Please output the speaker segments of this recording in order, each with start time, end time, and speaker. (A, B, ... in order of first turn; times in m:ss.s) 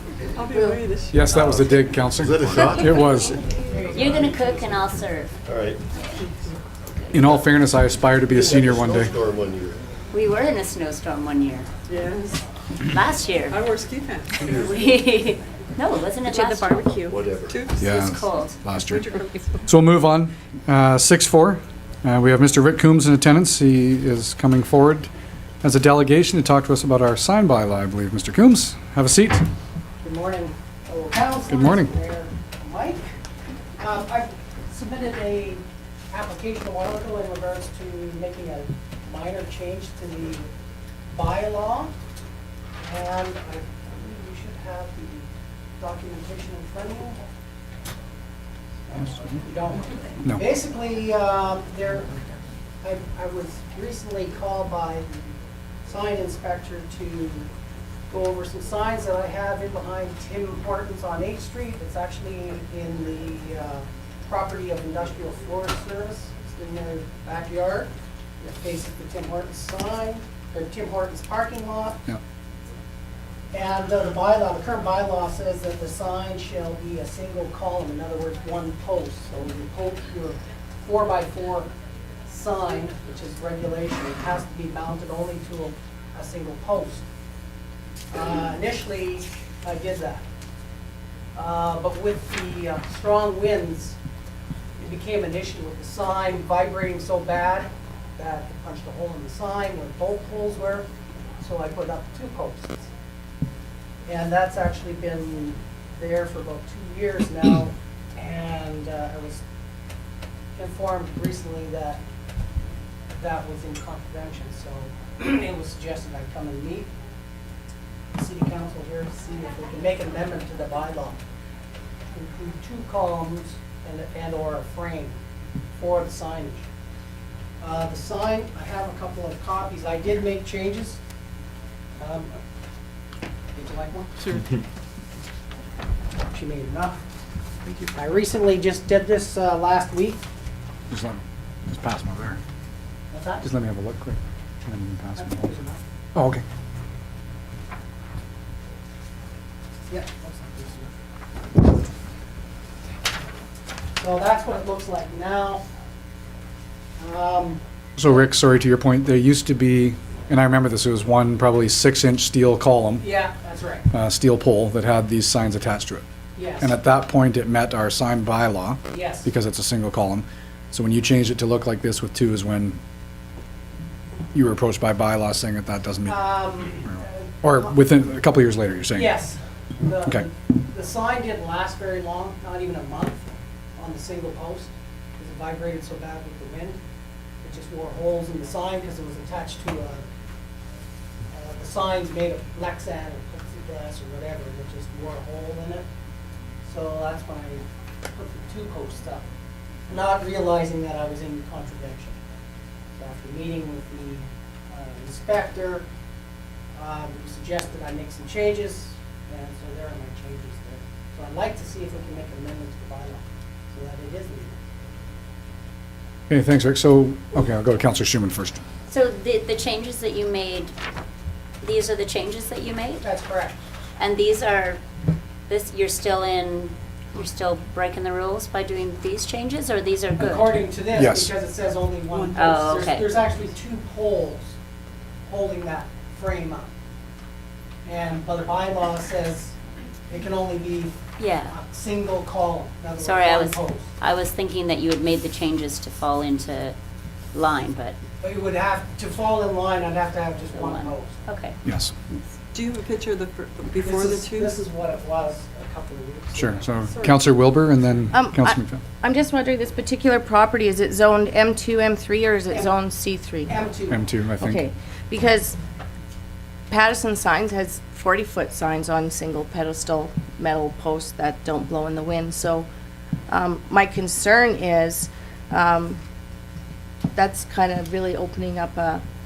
0:00.3-0:01.3 A
0:01.1-0:03.4 B
0:01.4-0:03.4 C
0:02.6-0:03.1 D
0:03.6-0:04.8 E
0:03.8-0:05.3 D
0:05.5-0:05.8 C
0:06.9-0:07.3 D
0:07.1-0:09.2 B
0:08.3-0:09.8 C
0:10.1-0:11.7 D
0:11.9-0:12.4 A
0:12.8-0:13.6 D
0:13.5-0:14.7 A
0:14.5-0:17.0 D
0:16.3-0:17.8 A
0:17.1-0:17.5 C
0:17.7-0:18.6 D
0:17.8-0:25.1 B
0:18.8-0:19.6 A
0:25.6-0:29.4 B
0:30.0-0:33.0 E
0:31.5-0:31.9 B
0:33.8-0:40.5 E
0:41.1-0:41.9 E
0:42.8-0:45.3 E
0:45.8-0:47.2 E
0:48.9-0:52.1 E
0:52.8-0:55.2 E
0:55.8-0:57.5 E
0:58.1-1:12.0 E
1:13.5-1:21.7 E
1:22.3-1:27.0 E
1:28.1-1:30.2 E
1:31.3-1:34.0 E
1:34.8-1:40.8 E
1:41.4-1:42.9 E
1:44.0-1:49.4 E
1:50.6-1:52.0 E
1:53.1-1:56.9 E
1:58.1-2:01.2 E
2:02.1-2:05.2 E
2:05.8-2:06.6 E
2:07.6-2:11.0 E
2:12.0-2:12.4 E
2:13.5-2:14.1 E
2:16.3-2:17.0 E
2:17.9-2:20.2 E
2:20.9-2:22.4 B
2:23.1-2:23.4 E
2:23.4-2:25.4 B
2:25.2-2:25.8 E
2:26.1-2:26.4 B
2:29.9-2:30.9 E
2:34.0-2:35.6 E
2:37.0-2:38.2 E
2:38.0-2:43.0 B
2:43.0-2:43.9 E
2:43.9-2:46.0 B
2:46.4-2:46.7 E
2:46.6-2:52.8 B
2:48.9-2:49.3 E
2:54.3-2:56.3 B
2:56.0-2:57.7 E
2:56.8-2:59.1 B
2:58.9-3:06.8 E
3:07.4-3:10.0 E
3:11.3-3:15.8 E
3:16.6-3:19.2 E
3:19.9-3:22.2 E
3:23.0-3:25.8 E
3:26.8-3:34.6 E
3:36.3-3:38.6 B
3:38.9-3:40.7 D
3:41.6-3:43.0 D
3:43.0-3:43.6 E
3:44.0-3:44.8 D
3:45.5-3:50.5 D
3:50.2-3:54.5 E
3:50.9-3:51.3 B
3:52.1-3:52.8 A
3:52.4-3:53.1 D
3:55.3-3:56.7 E
3:57.8-3:59.6 E
4:00.1-4:03.9 E
4:01.2-4:01.5 D
4:03.0-4:06.8 D
4:07.3-4:08.0 D
4:08.2-4:11.2 E
4:10.5-4:11.6 D
4:11.6-4:11.9 B
4:12.5-4:14.6 A
4:13.8-4:17.2 E
4:16.3-4:18.8 B
4:18.1-4:23.6 F
4:23.5-4:24.0 E
4:23.9-4:24.6 B
4:24.4-4:25.6 F
4:26.7-4:32.7 F
4:33.3-4:36.0 F
4:37.1-4:39.0 F